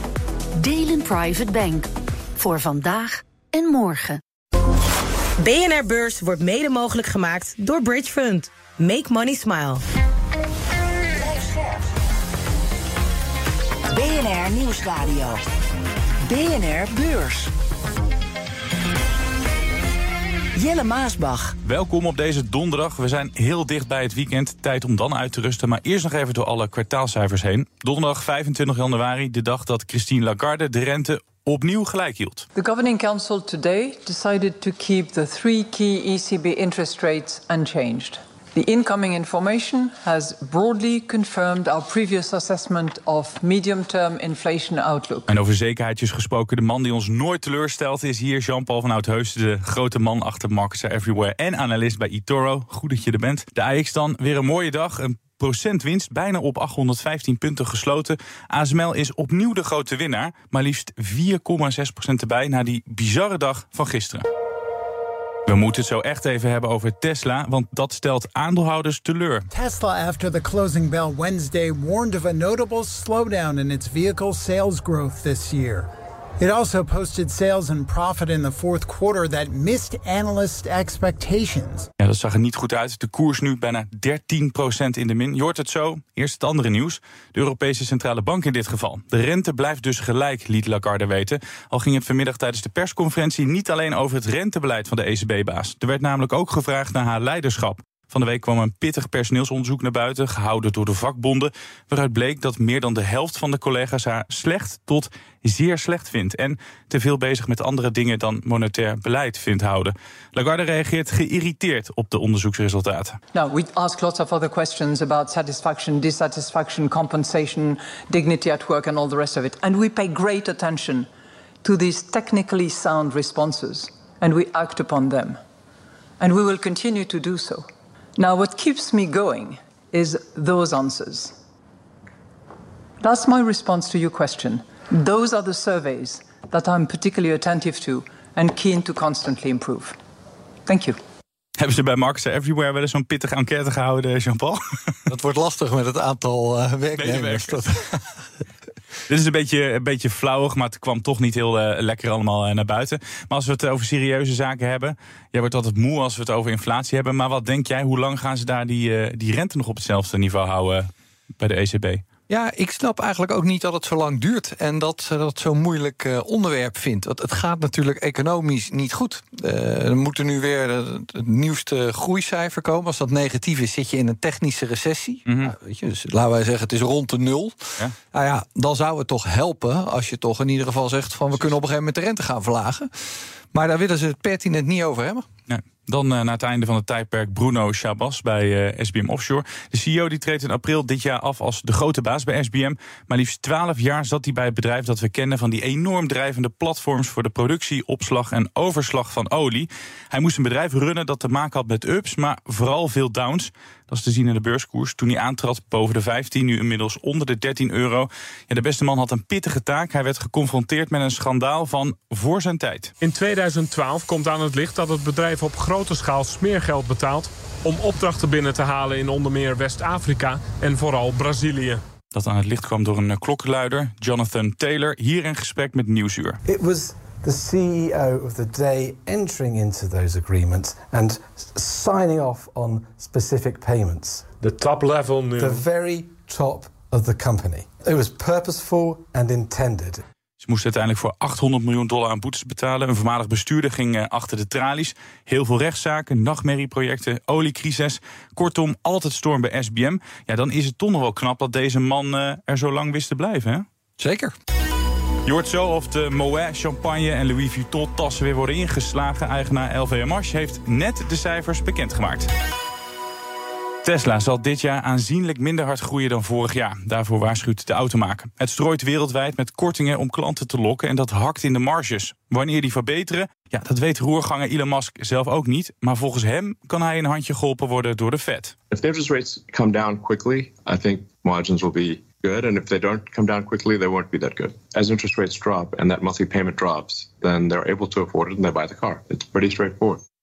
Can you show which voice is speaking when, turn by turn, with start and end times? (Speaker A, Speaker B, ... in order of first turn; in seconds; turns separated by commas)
Speaker A: 0.6-4.2, Speaker B: 5.4-9.8, Speaker C: 11.2-11.8, Speaker C: 13.9-15.4, Speaker C: 16.3-17.5, Speaker C: 20.6-21.6, Speaker D: 21.6-32.5, Speaker E: 32.5-45.3, Speaker D: 45.3-64.2, Speaker D: 65.5-69.5, Speaker F: 69.5-75.9, Speaker F: 76.4-81.9, Speaker D: 82.0-113.2, Speaker E: 113.3-121.1, Speaker E: 121.6-125.4, Speaker E: 126.2-131.4, Speaker E: 133.0-140.0, Speaker E: 140.7-141.0, Speaker D: 141.6-145.0, Speaker G: 145.1-148.0, Speaker D: 147.0-147.6, Speaker D: 149.1-162.0, Speaker G: 162.3-182.9, Speaker D: 175.3-175.5, Speaker G: 183.5-185.3, Speaker D: 185.5-212.9, Speaker H: 213.0-221.8, Speaker D: 222.1-226.4, Speaker I: 226.4-234.3, Speaker H: 234.4-235.6, Speaker I: 235.3-240.0, Speaker D: 240.4-253.7, Speaker G: 254.0-254.3, Speaker D: 255.3-262.3, Speaker D: 263.8-278.6, Speaker J: 278.7-290.0